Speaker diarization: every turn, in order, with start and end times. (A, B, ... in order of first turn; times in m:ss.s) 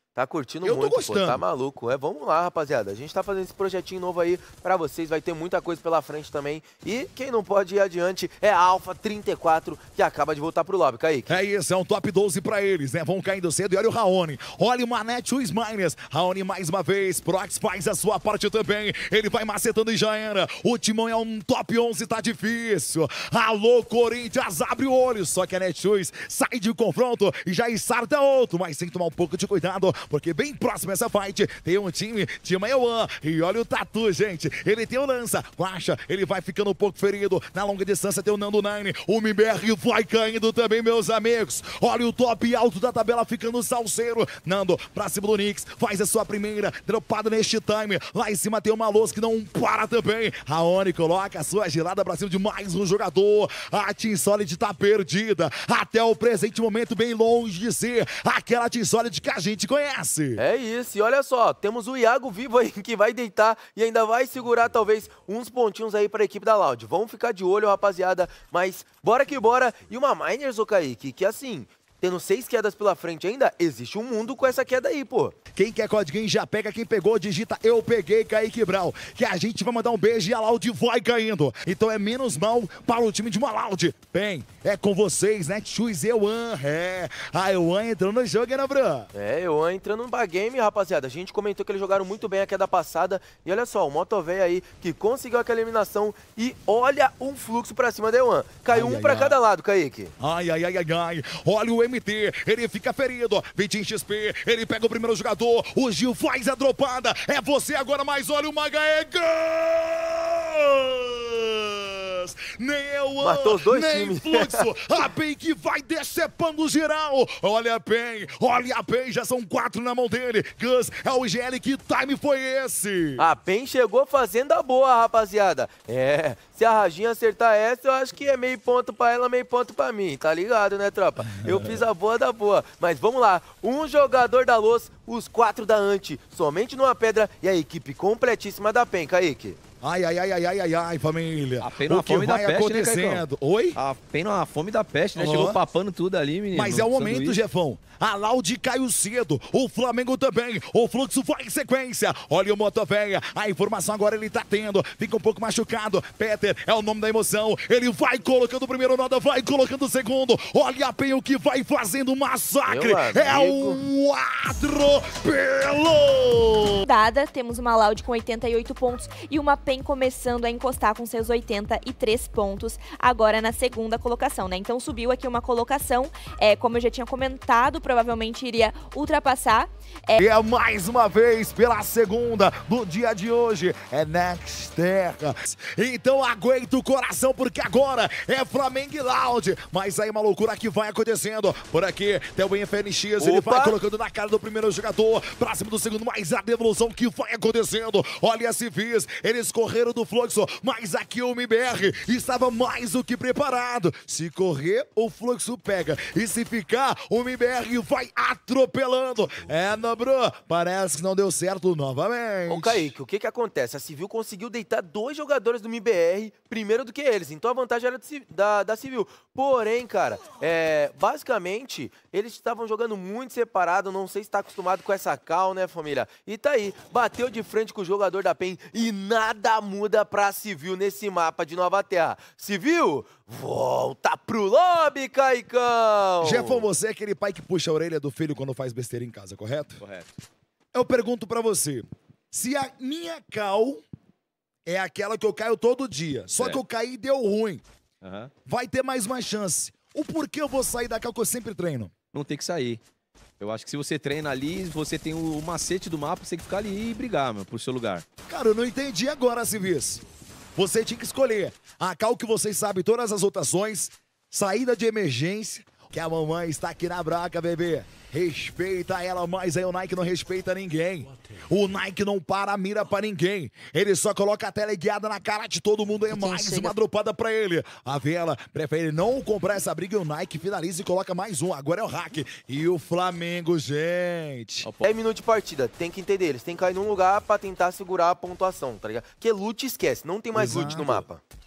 0:00.2-0:11.3 A
0:00.6-0:01.4 B
0:11.3-1:00.4 B
1:00.4-1:15.4 A
1:15.5-1:29.1 B
1:29.1-1:40.1 A
1:38.7-1:39.4 B
1:40.2-2:03.2 B
1:53.2-1:54.7 A
2:03.2-2:19.6 A
2:11.4-2:11.8 B
2:19.8-2:23.8 B
2:21.6-2:23.2 C
2:23.8-2:27.4 C
2:25.2-2:25.6 B
2:26.5-2:46.9 B
2:42.7-2:43.8 A
2:46.9-3:00.2 D
3:00.2-3:32.9 B
3:13.2-3:13.8 A
3:32.5-3:56.7 A
3:56.2-3:59.8 B
3:59.8-4:00.1 C
4:00.7-4:03.8 B
4:04.7-4:07.6 B
4:08.0-4:08.3 C
4:08.5-4:11.9 B
4:12.1-4:12.8 C
4:13.4-4:18.1 C
4:18.3-4:20.0 B
4:20.6-4:44.7 B
4:44.6-4:44.9 C
4:44.8-4:51.2 A
4:50.3-4:51.0 B